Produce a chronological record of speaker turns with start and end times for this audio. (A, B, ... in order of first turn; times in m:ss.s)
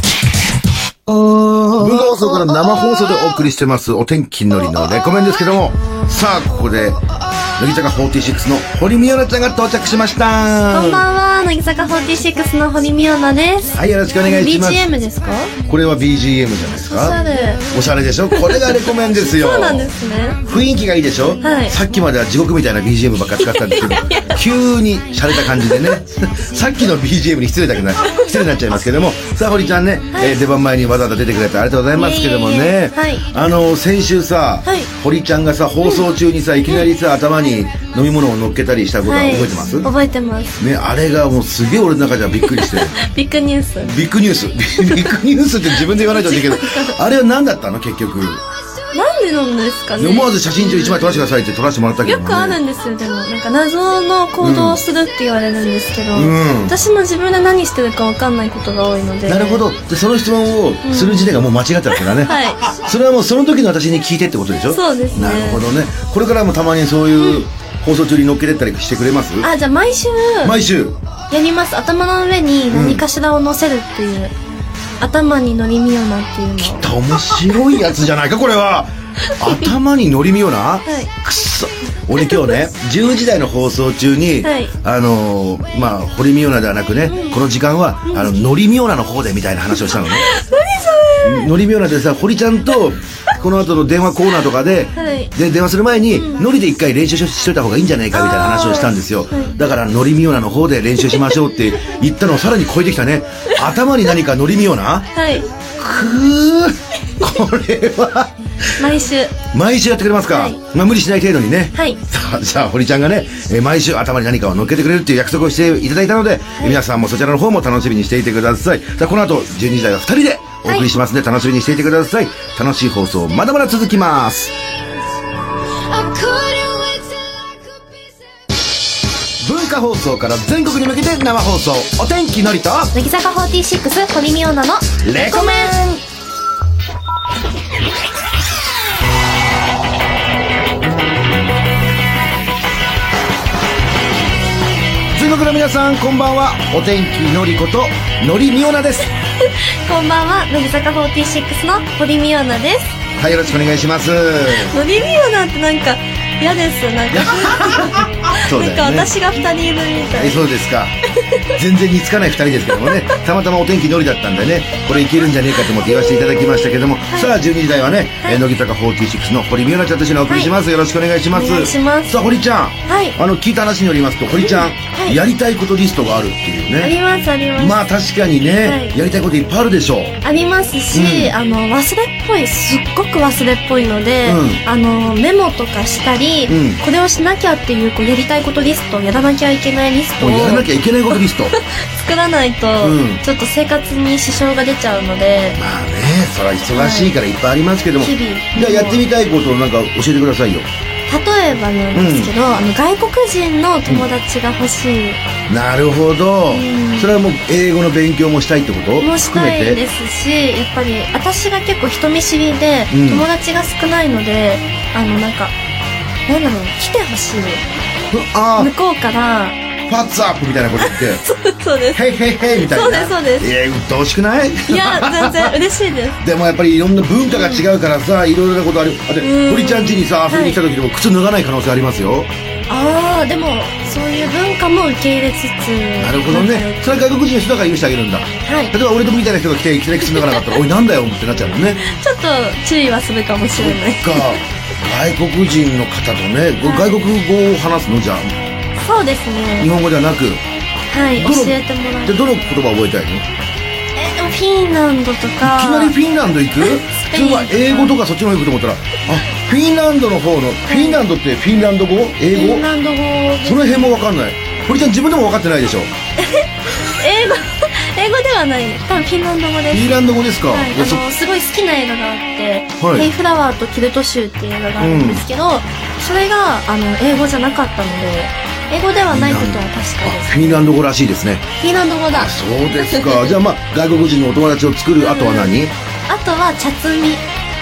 0:01.5-0:03.4 A
0:01.7-0:07.0 B
0:07.6-0:11.0 B
0:10.7-0:15.5 A
0:13.7-0:14.9 B
0:15.6-0:17.2 B
0:16.8-0:17.6 A
0:17.7-0:19.9 B
0:18.3-0:20.4 A
0:20.4-0:39.9 B
0:21.4-0:21.8 A
0:23.4-0:24.4 A
0:28.0-0:28.3 A
0:31.9-0:33.2 A
0:39.0-0:40.6 A
0:40.6-0:43.0 B
0:42.4-0:43.9 A
0:43.8-0:48.4 B
0:44.8-0:45.1 A
0:45.7-0:47.0 A
0:48.9-0:51.2 A
0:50.0-0:52.6 B
0:52.0-0:59.6 A
0:54.4-0:54.8 B
0:56.1-0:56.8 B
0:59.3-1:09.5 B
1:00.8-1:01.3 A
1:02.2-1:02.8 A
1:04.7-1:05.6 A
1:07.2-1:07.5 A
1:09.4-1:10.6 A
1:10.4-1:11.0 B
1:11.3-1:14.3 A
1:12.7-1:13.0 B
1:15.0-1:16.9 A
1:16.6-1:30.2 B
1:17.4-1:17.7 A
1:19.3-1:19.6 A
1:22.2-1:22.5 A
1:24.4-1:24.7 A
1:27.0-1:27.4 A
1:28.0-1:28.3 A
1:29.8-1:31.5 A
1:31.2-1:45.1 B
1:35.0-1:35.3 A
1:36.1-1:36.4 A
1:38.1-1:39.6 A
1:45.1-1:45.5 A
1:45.8-1:48.8 B
1:48.8-1:49.4 A
1:49.5-2:04.5 B
1:50.3-1:50.6 A
2:00.6-2:00.9 A
2:06.0-2:07.0 A
2:09.4-2:12.9 B
2:12.9-2:15.9 A
2:15.0-2:16.0 B
2:25.1-2:29.1 B
2:29.4-2:32.9 A
2:33.2-2:34.8 B
2:34.5-2:40.4 A
2:37.1-2:39.1 B
2:40.1-2:41.0 B
2:41.2-2:41.6 A
2:41.5-2:57.0 B
2:45.8-2:47.3 A
2:51.3-2:52.2 A
2:52.9-2:53.2 A
2:54.4-2:55.2 A
2:56.8-2:57.8 A
2:57.6-3:00.2 B
2:58.6-2:59.0 A
3:00.2-3:15.6 A
3:00.9-3:01.3 B
3:04.2-3:04.6 B
3:06.5-3:06.8 B
3:10.2-3:11.6 B
3:12.8-3:13.2 B
3:15.6-3:20.7 B
3:16.7-3:17.1 A
3:18.0-3:19.0 A
3:21.1-3:25.2 A
3:21.9-3:22.3 B
3:25.5-3:29.8 B
3:26.5-3:27.1 A
3:29.0-3:35.5 A
3:32.9-3:33.3 B
3:36.3-3:37.6 A
3:38.1-3:38.7 B
3:38.6-3:39.6 A
3:39.9-3:41.2 B
3:40.8-3:42.0 A
3:41.9-3:45.6 B
3:42.6-3:43.5 A
3:44.7-3:46.2 A
3:46.2-3:52.3 B
3:47.3-3:47.6 A
3:49.2-3:50.6 A
3:52.7-3:56.9 A
3:56.0-4:01.8 B
3:58.4-3:58.7 A
4:00.0-4:00.4 A
4:01.8-4:04.4 A
4:03.6-4:08.3 B
4:06.6-4:07.0 A
4:08.8-4:09.7 A
4:09.6-4:10.4 B
4:10.9-4:12.6 A
4:11.2-4:13.2 B
4:14.0-4:15.9 A
4:15.4-4:22.7 B
4:17.0-4:17.9 A
4:20.7-4:21.0 A
4:22.3-4:23.9 A
4:23.4-4:25.9 B
4:26.2-4:40.7 A
4:29.7-4:31.0 B
4:32.8-4:33.1 B
4:34.8-4:35.2 B
4:39.1-4:41.4 B
4:41.6-4:43.3 A
4:42.1-4:45.7 B
4:45.0-4:45.5 A
4:46.1-4:47.2 A